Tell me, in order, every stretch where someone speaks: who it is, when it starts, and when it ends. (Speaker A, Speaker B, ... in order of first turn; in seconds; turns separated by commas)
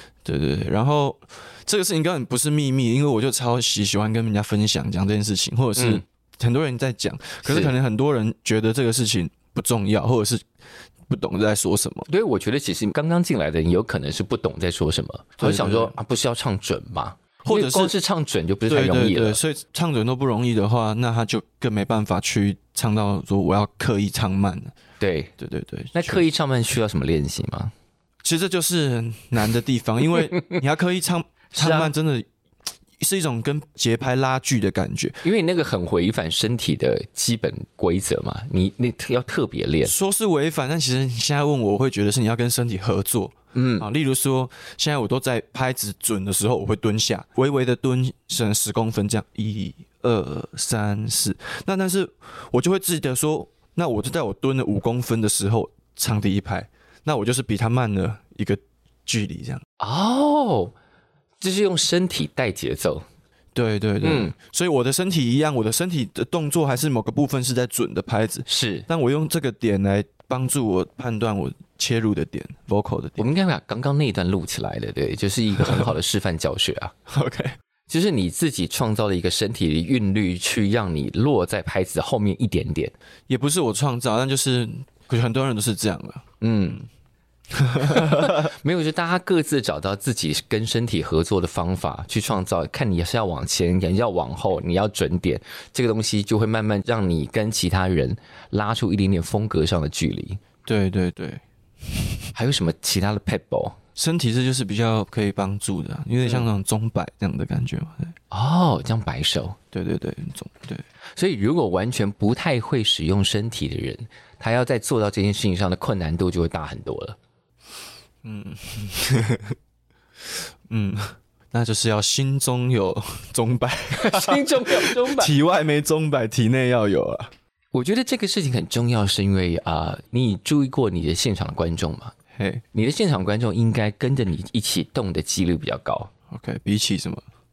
Speaker A: 0.2-10.5, Speaker B: 5.8-6.0, Speaker B: 7.5-7.7, Speaker A: 11.1-12.1, Speaker B: 12.1-19.4, Speaker A: 15.4-15.9, Speaker A: 17.4-17.9, Speaker A: 18.7-24.7, Speaker B: 25.0-25.3, Speaker A: 25.4-26.2, Speaker B: 25.9-27.7, Speaker A: 28.2-32.3, Speaker B: 30.3-30.6, Speaker B: 31.5-31.9, Speaker A: 33.0-35.2, Speaker B: 35.2-39.9, Speaker A: 39.9-59.6, Speaker B: 43.5-43.9, Speaker B: 59.8-60.8, Speaker B: 61.4-63.0, Speaker A: 63.5-73.3, Speaker B: 64.0-64.3, Speaker B: 68.5-68.9, Speaker B: 73.2-76.9, Speaker A: 75.6-75.9, Speaker A: 77.1-77.6, Speaker B: 77.9-83.0, Speaker A: 83.3-86.2, Speaker B: 86.4-86.8, Speaker A: 87.5-88.5, Speaker B: 87.8-100.4, Speaker A: 100.7-102.3, Speaker B: 102.3-103.8, Speaker A: 104.0-108.2, Speaker B: 108.3-109.6, Speaker A: 109.7-110.8, Speaker B: 111.2-117.2, Speaker A: 118.2-119.6, Speaker A: 120.2-127.3, Speaker B: 124.0-125.3, Speaker B: 127.7-132.2, Speaker A: 132.4-132.6, Speaker B: 132.7-136.1, Speaker A: 136.3-137.2